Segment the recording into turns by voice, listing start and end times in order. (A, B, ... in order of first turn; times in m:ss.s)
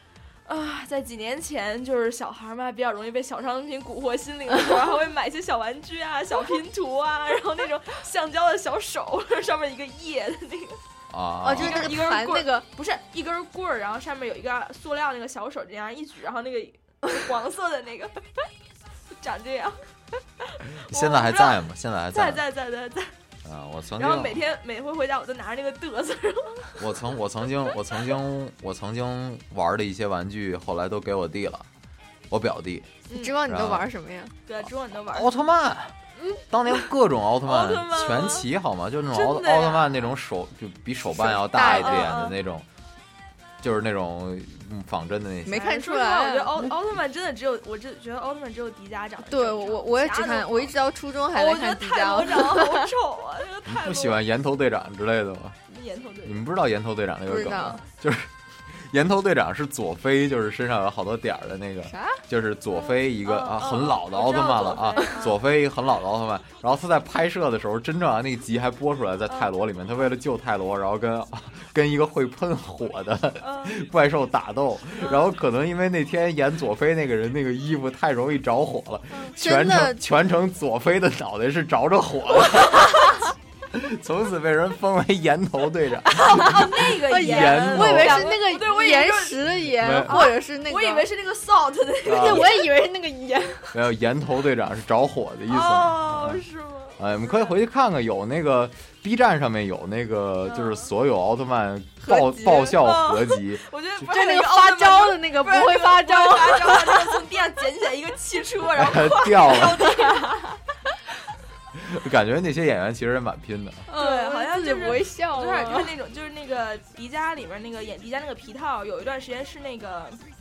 0:00.5-0:10.8 A
0:11.1-0:12.0 B
0:11.4-0:12.7 C
0:11.4-0:18.5 A
0:19.2-0:19.8 A
0:20.5-0:21.6 A
0:20.9-0:22.4 B
0:22.1-0:23.1 A
0:23.4-0:24.4 B
0:24.0-0:27.0 A
0:26.8-0:31.7 B
0:32.3-0:33.9 B
0:33.1-0:33.4 A
0:33.1-0:34.3 C
0:34.5-0:35.3 A
0:35.1-0:36.0 B
0:36.5-0:42.7 B
0:37.4-0:38.5 A
0:39.1-0:40.1 A
0:41.2-0:42.2 C
0:41.2-0:42.4 A
0:43.6-0:45.7 B
0:45.5-0:46.7 C
0:45.5-0:50.7 A
0:49.2-0:52.9 C
0:51.3-0:54.2 A
0:53.7-0:55.6 B
0:55.7-0:56.4 A
0:56.2-1:28.3 B
0:57.3-0:57.8 C
0:57.3-0:57.8 A
1:01.9-1:02.2 C
1:02.7-1:05.4 A
1:13.4-1:13.8 A
1:15.0-1:15.3 A
1:19.4-1:20.0 C
1:26.1-1:32.7 A
1:27.1-1:31.1 C
1:29.7-1:30.3 B
1:32.0-1:32.5 B
1:32.1-1:33.8 C
1:33.7-1:36.4 B
1:35.5-1:37.6 A
1:37.0-1:43.6 B
1:40.4-1:40.9 A
1:42.1-1:42.8 C
1:42.1-1:50.6 A
1:44.0-1:47.2 C
1:48.8-1:50.0 B
1:51.8-1:53.8 B
1:53.9-1:55.9 C
1:53.9-2:00.2 A